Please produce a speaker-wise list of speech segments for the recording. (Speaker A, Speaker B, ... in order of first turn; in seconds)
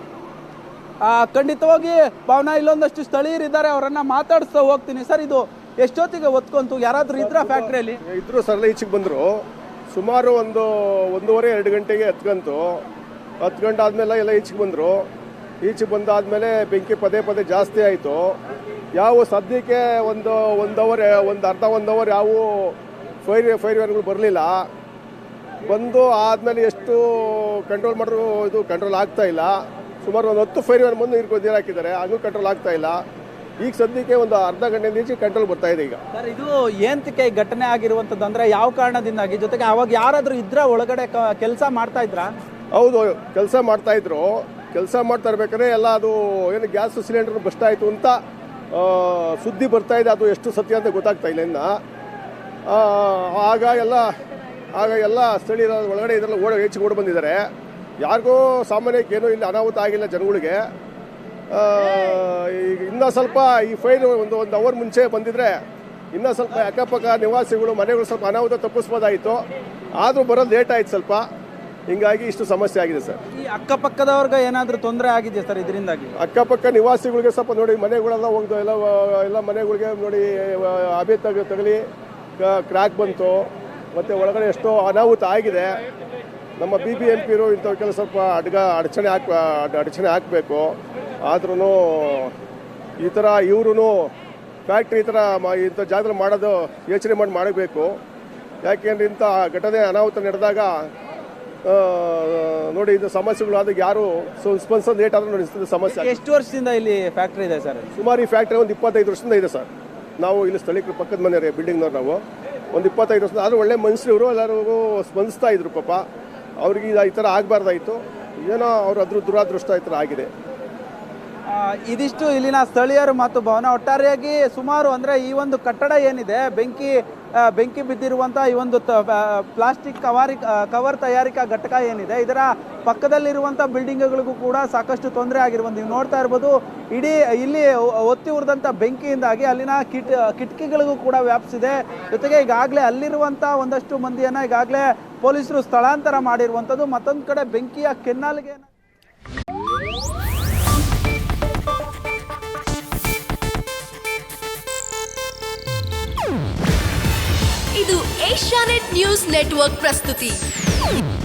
Speaker A: 1.0-8.0, 36.1-42.3, 73.4-76.2, 105.9-107.9, 121.5-148.7
Speaker B: 7.2-9.3, 9.9-12.8, 13.4-15.0, 15.6-18.4, 19.0-24.7, 25.7-33.0, 33.6-36.0, 42.7-48.2, 48.7-51.8, 52.7-54.1, 54.8-57.5, 58.0-60.6, 61.5-65.5, 66.1-69.4, 70.0-71.2, 71.9-73.2, 76.2-81.8, 82.4-85.7, 86.6-92.3, 93.0-94.1, 94.7-97.9, 98.7-100.7, 101.7-106.2, 108.0-109.7, 110.2-112.2, 112.7-116.0, 116.6-120.3
Speaker C: 157.7-160.4